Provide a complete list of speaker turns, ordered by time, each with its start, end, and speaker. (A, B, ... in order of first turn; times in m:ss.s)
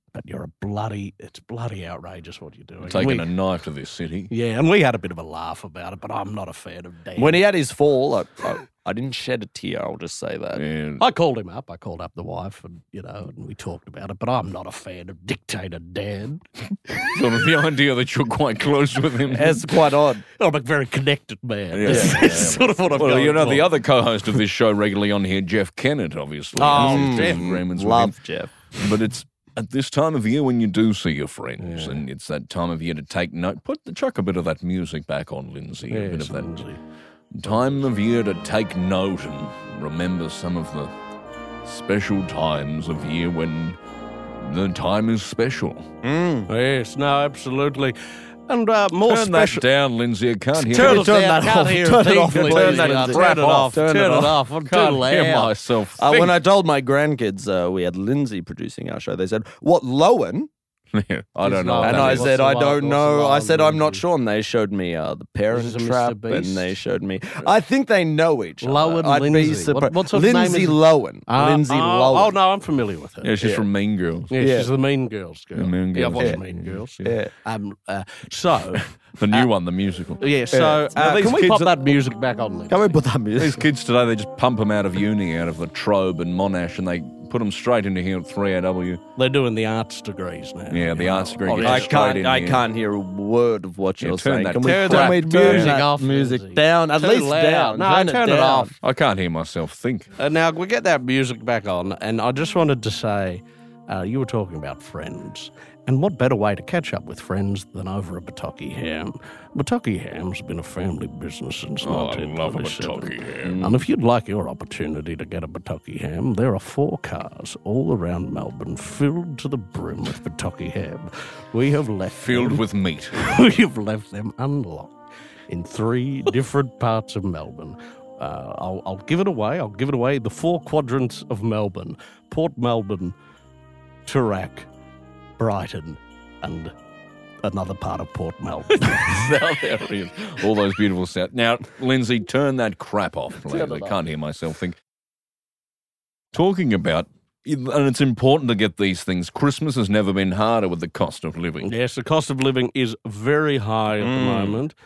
0:00.1-0:03.3 A
0:02.8-0:04.3 B
0:04.3-0:07.4 A
0:07.2-0:10.6 C
0:10.5-0:11.0 B
0:11.0-0:16.4 A
0:17.1-0:19.7 B
0:19.3-0:20.2 C
0:20.4-0:23.7 A
0:21.7-0:28.2 B
0:21.9-0:22.5 C
0:26.6-0:27.4 A
0:26.7-0:28.7 C
0:28.8-0:36.5 B
0:31.6-0:32.0 A
0:35.9-0:36.8 A
0:37.3-0:40.9 B
0:41.6-0:43.8 B
0:44.4-0:45.9 B
0:46.0-0:46.5 C
0:46.5-0:48.0 A
0:48.5-0:49.6 A
0:49.0-0:51.2 B
0:50.6-0:54.4 C
0:50.7-0:55.5 A
0:52.3-0:56.4 B
0:56.0-1:00.5 C
1:00.9-1:02.3 B
1:01.4-1:04.0 A
1:01.8-1:12.3 C
1:05.5-1:06.7 A
1:08.6-1:13.3 A
1:13.2-1:14.3 B
1:13.4-1:13.6 C
1:14.3-1:18.8 A
1:14.4-1:14.7 C
1:15.5-1:17.1 B
1:17.0-1:17.3 C
1:19.2-1:20.2 B
1:20.2-1:23.0 A
1:20.5-1:20.9 C
1:21.0-1:21.8 B
1:22.7-1:23.6 C
1:23.4-1:29.0 B
1:29.2-1:31.9 A
1:30.7-1:32.6 B
1:31.5-1:38.7 C
1:34.0-1:35.8 B
1:34.6-1:38.7 A
1:38.8-1:40.1 B
1:40.2-2:04.9 A
1:51.8-1:53.6 B
1:53.4-1:53.8 C
2:02.2-2:03.2 B
2:05.5-2:13.1 A
2:14.0-2:14.7 A
2:15.4-2:16.7 A
2:17.4-2:19.2 A
2:18.8-2:24.8 B
2:23.4-2:24.0 C
2:26.3-2:31.7 B
2:31.6-2:34.7 A
2:34.0-2:34.6 C